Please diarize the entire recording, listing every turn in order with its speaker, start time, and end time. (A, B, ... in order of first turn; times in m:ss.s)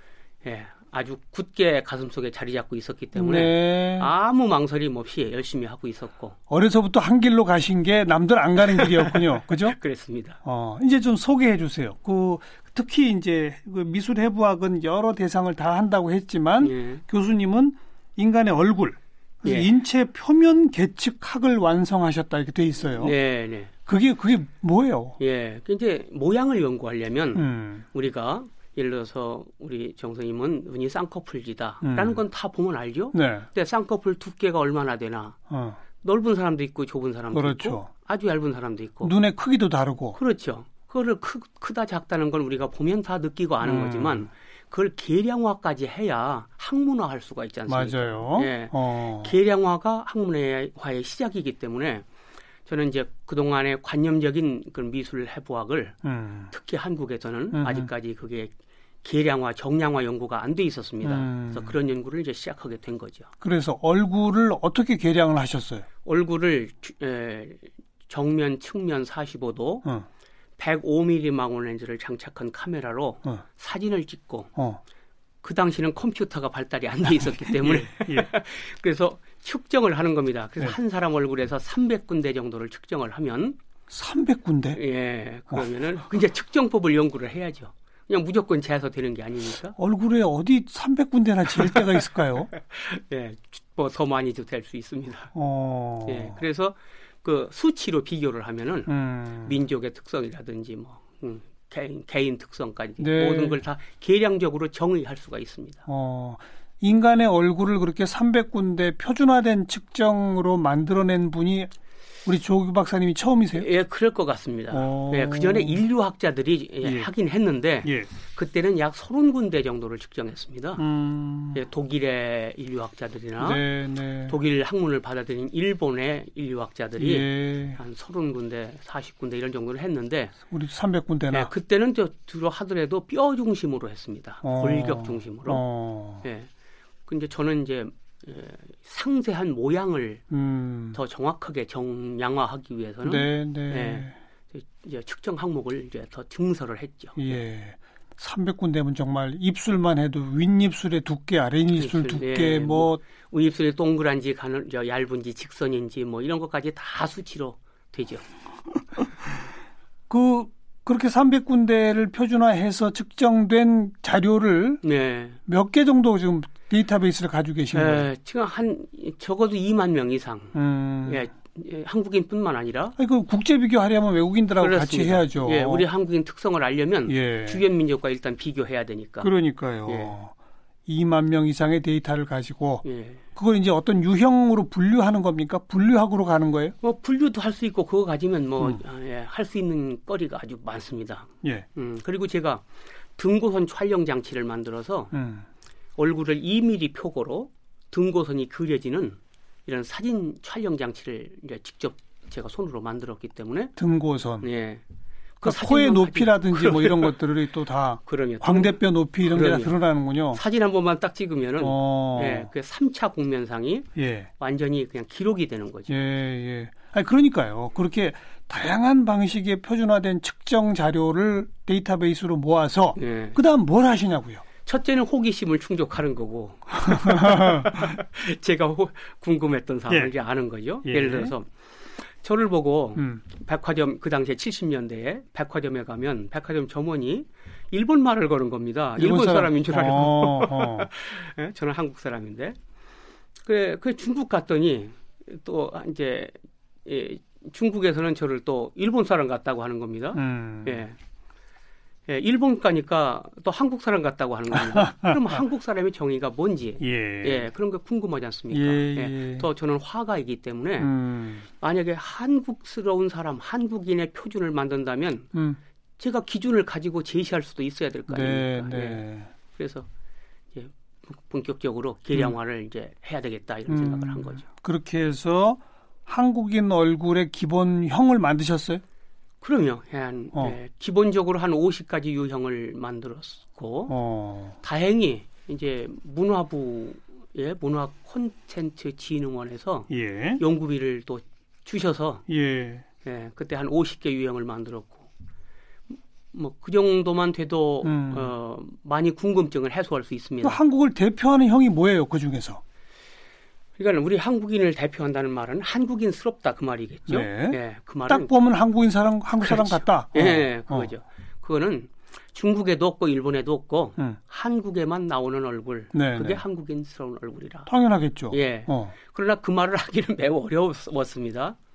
0:00.4-0:06.4 A
0:03.2-0:04.1 B
0:06.5-0:09.8 B
0:08.6-0:10.4 A
0:10.4-0:23.2 B
0:16.6-0:17.0 A
0:19.4-0:19.7 A
0:23.0-0:23.7 A
0:23.9-0:25.2 B
0:25.2-0:35.4 A
0:27.3-0:27.9 B
0:31.8-0:32.2 B
0:33.1-0:33.5 B
0:35.5-0:35.8 B
0:36.0-0:39.1 A
0:37.3-0:37.9 B
0:39.0-0:40.2 B
0:40.1-0:52.0 A
0:43.6-0:44.3 B
0:47.7-0:49.4 B
0:52.7-0:56.0 A
0:56.0-0:56.5 B
0:56.5-1:03.3 A
0:57.5-0:57.9 B
1:01.0-1:01.8 B
1:03.4-1:05.8 B
1:06.0-1:09.9 A
1:10.6-1:14.5 A
1:15.4-1:23.6 A
1:17.5-1:18.3 B
1:23.9-1:24.8 B
1:24.8-1:29.8 A
1:29.8-1:32.5 B
1:31.6-1:31.8 A
1:32.5-1:35.3 A
1:35.3-1:36.4 B
1:36.1-1:38.9 A
1:38.9-1:39.5 B
1:39.4-1:45.8 A
1:43.0-1:43.6 B
1:45.9-1:51.7 B
1:52.2-1:53.7 B
1:53.6-2:00.8 A
1:54.7-1:55.8 B
1:56.8-1:57.1 B
1:57.8-1:58.1 B
2:00.8-2:01.6 B
2:01.5-2:03.6 A
2:03.4-2:04.3 B
2:04.3-2:10.3 A
2:07.0-2:07.8 B
2:10.5-2:11.5 B
2:11.3-2:15.6 A
2:14.4-2:16.2 B
2:16.2-2:16.5 A
2:17.1-2:20.2 A
2:20.3-2:21.0 B
2:20.9-2:27.2 A
2:23.0-2:24.2 B
2:27.2-2:33.0 B
2:31.7-2:38.3 A
2:40.1-2:44.8 B
2:44.8-2:45.4 A
2:45.5-2:48.1 B
2:47.7-2:53.0 A
2:50.5-2:51.2 B
2:53.0-2:55.8 B
2:54.6-2:59.3 A
2:57.1-2:57.6 B
2:59.2-3:00.3 B
2:59.9-3:00.2 A
3:00.9-3:06.8 B
3:02.8-3:03.2 A
3:06.8-3:12.6 A
3:13.2-3:15.1 A
3:15.1-3:15.5 B
3:16.0-3:23.8 A
3:23.8-3:24.5 B
3:24.4-3:24.8 A
3:25.4-3:27.2 A
3:25.4-3:30.4 B
3:28.0-3:29.7 A
3:30.3-3:33.9 A
3:31.6-3:32.5 B
3:34.0-3:34.3 B
3:34.4-3:35.9 A
3:35.9-3:44.4 B
3:43.0-3:43.4 A
3:44.6-4:02.6 A
3:46.9-3:47.9 B
3:50.8-3:51.3 B
3:53.0-3:53.2 B
3:59.0-4:00.9 B
4:03.4-4:06.3 A
4:06.9-4:11.0 A
4:10.2-4:10.8 B
4:12.1-4:20.9 A
4:14.5-4:15.4 B
4:16.8-4:17.5 B
4:18.5-4:19.5 B
4:20.8-4:21.5 B
4:21.6-4:25.3 A
4:25.3-4:25.6 B
4:26.0-4:29.0 A
4:28.1-4:29.3 B
4:29.5-4:29.9 A
4:30.5-4:34.5 A
4:33.7-4:38.8 B
4:39.4-4:44.0 A
4:43.9-4:44.6 B
4:44.6-4:52.2 A
4:49.9-4:50.4 B
4:52.3-4:52.8 B
4:53.0-4:55.1 A
4:56.3-5:00.6 A
4:57.8-4:58.3 B
5:00.4-5:02.6 B
5:03.8-5:08.3 A
5:07.1-5:10.9 B
5:09.4-5:17.7 A
5:15.9-5:16.4 B
5:17.7-5:18.9 B
5:18.3-5:21.6 A